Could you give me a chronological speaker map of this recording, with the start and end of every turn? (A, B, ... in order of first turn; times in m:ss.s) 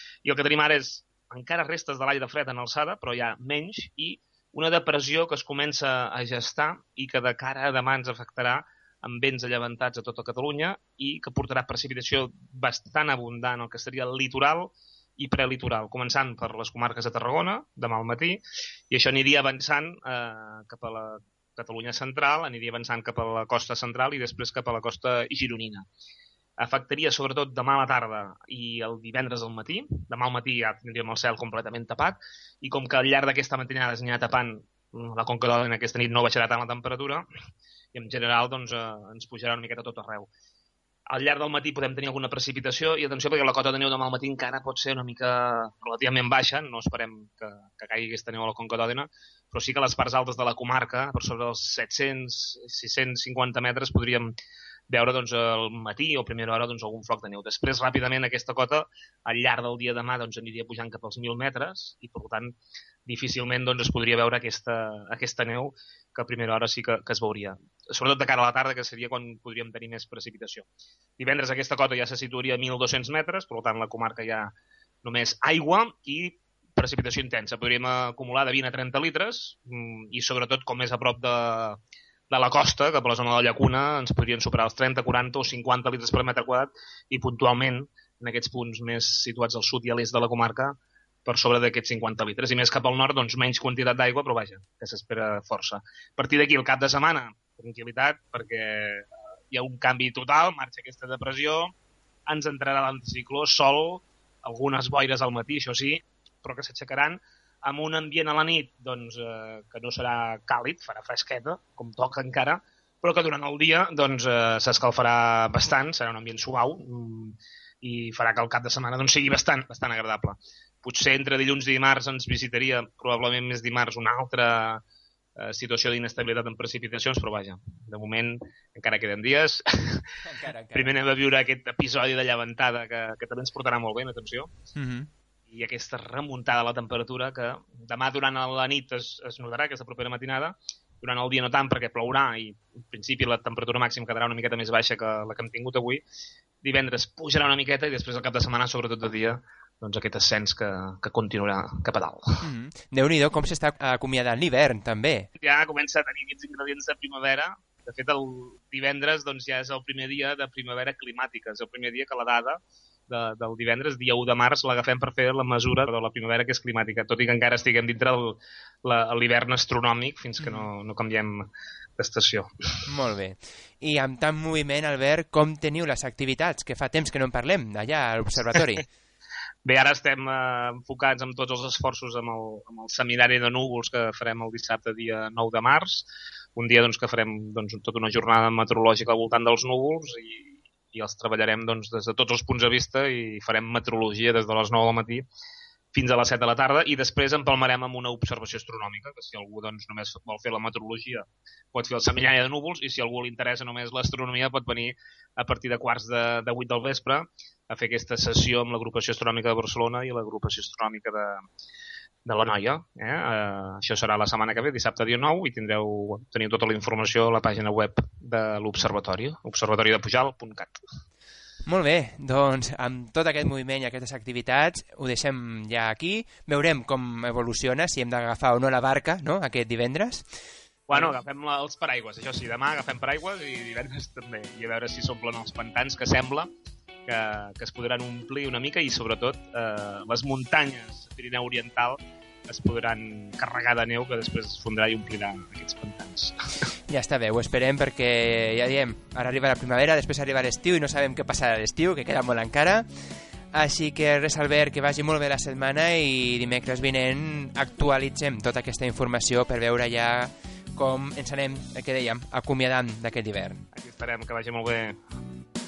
0:00.2-0:25.8 A
0:26.6-0:37.2 A
0:37.9-0:40.3 A
0:41.1-0:54.3 A
0:54.9-1:02.5 A
1:03.0-1:10.6 A
1:11.2-1:14.5 A
1:15.0-1:21.8 A
1:22.3-1:41.7 A
1:42.2-2:04.8 A
2:05.4-2:10.0 A
2:10.2-2:10.9 B
2:10.7-2:14.5 A
2:14.8-2:15.1 B
2:15.5-2:26.0 A
2:26.6-2:32.4 A
2:32.4-2:35.3 B
2:35.4-2:51.5 A
2:52.0-2:52.9 A
2:52.9-2:58.8 B
2:59.6-3:15.2 A
3:15.9-3:31.4 A
3:32.2-3:40.8 A
3:41.6-3:50.2 B
3:50.9-3:56.5 A
3:50.9-3:51.2 B
3:57.0-4:06.3 A
4:06.9-4:12.9 B
4:13.5-4:23.6 B
4:23.7-4:25.0 A